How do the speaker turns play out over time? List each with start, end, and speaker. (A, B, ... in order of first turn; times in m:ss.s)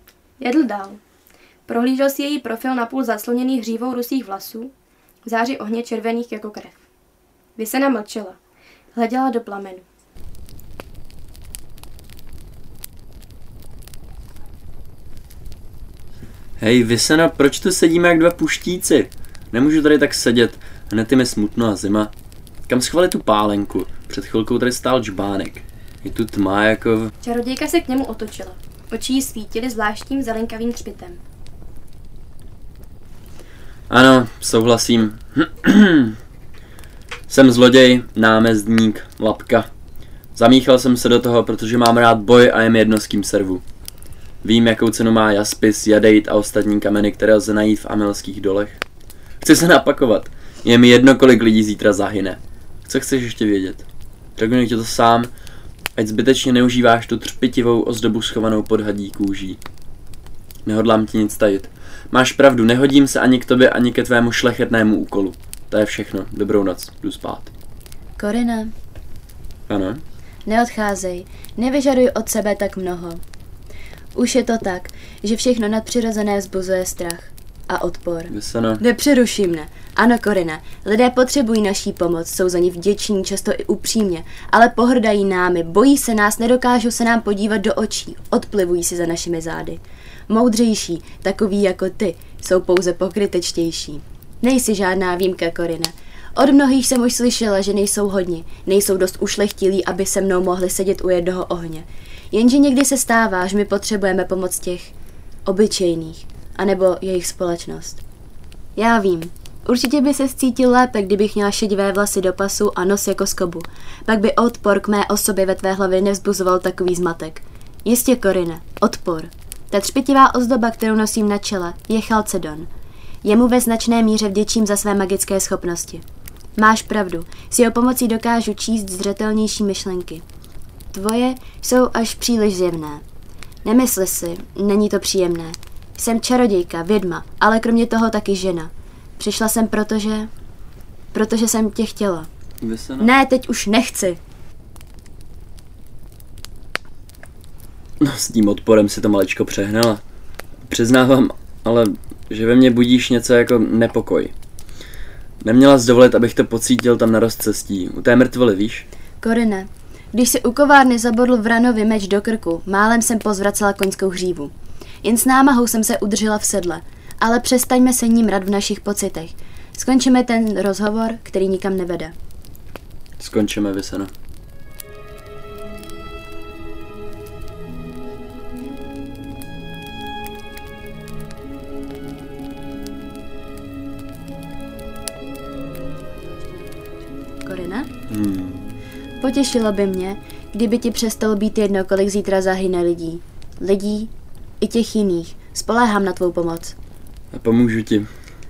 0:00.4-0:01.0 A
0:01.7-0:04.7 A
0:05.2-0:06.8 A
0:07.6-0:08.4 A
0:08.9-0:09.9 A
0:16.6-0:22.1 B
0:22.7-0:27.1 B
0:27.2-0:31.2 A
0:33.9-0:36.2 B
0:37.3-0:39.7 B
0:40.3-0:43.6 B
0:44.4-0:48.8 B
0:49.4-0:53.8 B
0:54.4-0:55.3 B
0:56.0-0:59.6 B
1:00.6-1:07.5 B
1:08.2-1:08.7 C
1:09.7-1:10.0 B
1:10.4-1:13.2 C
1:14.2-1:44.9 C
1:18.3-1:18.8 B
1:45.4-1:48.0 C
1:48.8-2:02.7 C
2:03.2-2:06.0 C
2:06.6-2:10.2 C
2:10.9-2:13.0 C
2:13.6-2:20.3 C
2:21.1-2:22.3 C
2:22.6-2:23.1 B
2:23.0-2:24.2 C
2:28.0-2:30.0 B
2:30.7-2:34.3 B
2:35.4-2:38.9 B
2:39.2-2:52.1 C
2:53.2-2:54.1 B
3:07.4-3:07.9 C
3:08.1-3:08.7 B
3:09.2-3:16.8 C
3:17.3-3:18.1 B